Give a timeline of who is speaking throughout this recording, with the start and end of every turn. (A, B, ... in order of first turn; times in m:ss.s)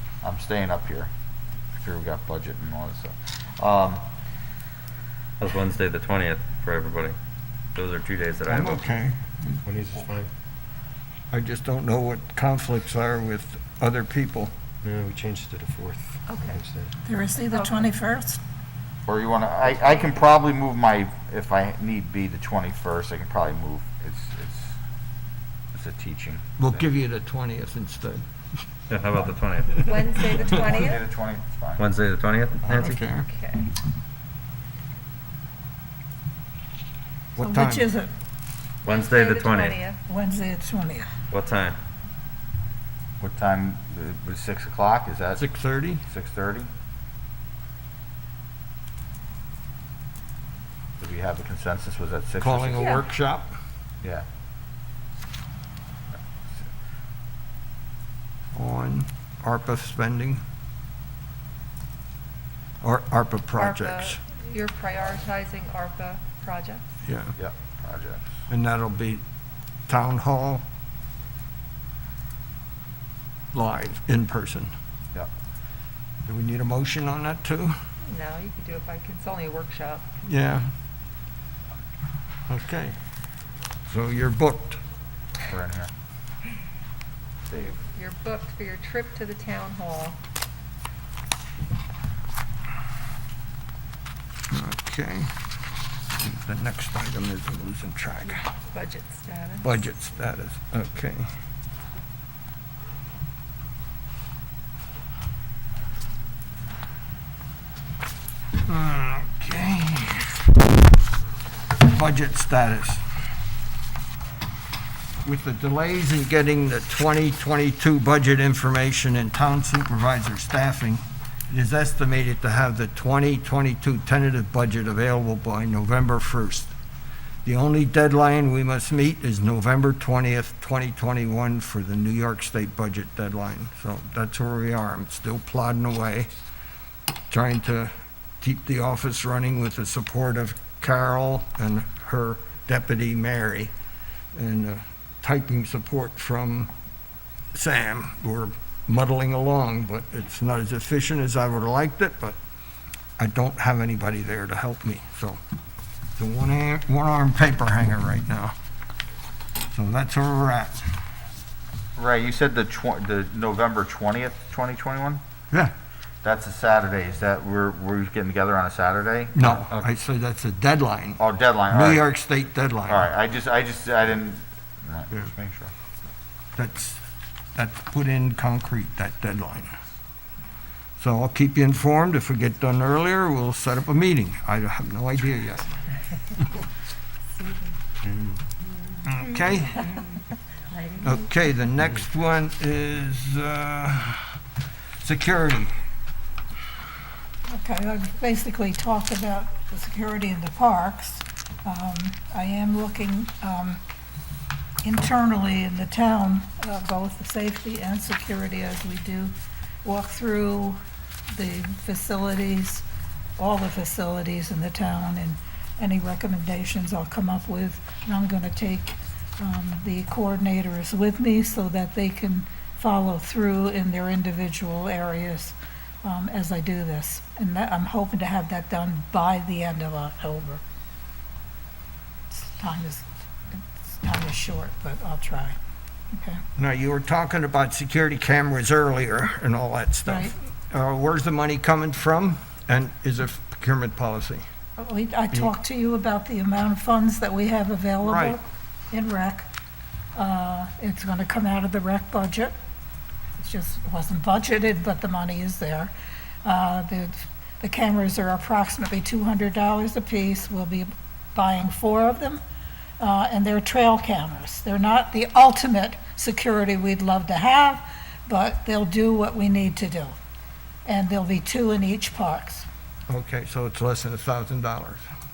0:00.2-0:01.1 A
0:01.8-0:04.0 A
0:05.4-0:07.2 B
0:07.7-0:08.8 B
0:08.5-0:09.6 C
0:09.6-0:10.3 D
0:11.3-0:14.5 C
0:14.8-0:16.9 D
0:16.3-0:16.6 E
0:17.0-0:18.4 F
0:17.5-0:17.9 E
0:19.1-0:24.8 A
0:25.7-0:26.9 A
0:26.6-0:28.2 C
0:28.9-0:29.9 B
0:29.7-0:30.2 C
0:29.8-0:31.0 E
0:30.2-0:31.8 A
0:31.8-0:33.0 B
0:32.6-0:33.3 C
0:33.0-0:33.7 E
0:37.4-0:37.9 C
0:37.4-0:38.1 F
0:38.8-0:39.8 B
0:38.8-0:40.0 E
0:40.0-0:41.1 F
0:41.3-0:41.8 B
0:43.2-0:45.4 A
0:45.4-0:46.0 C
0:46.0-0:46.7 A
0:51.0-0:52.9 A
0:52.4-0:53.5 C
0:52.7-0:53.0 E
0:58.5-1:00.4 C
1:02.8-1:04.2 C
1:03.5-1:06.9 E
1:07.0-1:07.3 C
1:07.4-1:08.3 A
1:08.5-1:09.2 C
1:09.9-1:10.6 C
1:13.5-1:14.7 C
1:16.2-1:17.8 C
1:18.1-1:20.0 E
1:20.2-1:20.7 C
1:22.5-1:23.0 C
1:23.9-1:24.8 C
1:25.5-1:25.9 A
1:27.5-1:30.2 E
1:34.5-1:35.3 C
1:36.2-1:38.4 C
1:38.7-1:39.8 E
1:39.6-1:41.3 C
1:48.6-1:50.4 C
1:51.8-1:53.0 C
1:55.2-2:06.7 C
2:07.4-2:16.3 C
2:17.3-2:23.7 C
2:24.3-2:26.7 C
2:27.5-2:32.4 C
2:33.2-2:35.4 C
2:36.2-2:38.5 C
2:39.7-2:40.9 C
2:42.0-2:45.2 A
2:46.2-2:49.8 A
2:49.3-2:53.1 C
2:51.2-2:52.0 A
2:52.9-2:55.7 A
2:56.6-2:57.0 C
2:57.5-2:59.7 C
3:01.0-3:05.7 C
3:08.0-3:08.4 D
3:09.0-3:09.9 C
3:11.0-3:14.3 C
3:15.0-3:15.7 C
3:17.5-3:23.8 F
3:24.8-3:30.8 F
3:31.3-3:32.8 F
3:33.4-3:50.6 F
3:52.3-3:55.6 F
3:56.1-3:56.4 F
3:56.6-4:04.4 C
4:00.0-4:00.3 F
4:04.8-4:09.5 F
4:08.0-4:08.4 C
4:10.1-4:12.5 F
4:13.3-4:15.9 F
4:16.4-4:22.4 F
4:23.0-4:30.2 F
4:30.8-4:32.7 F
4:33.1-4:35.0 C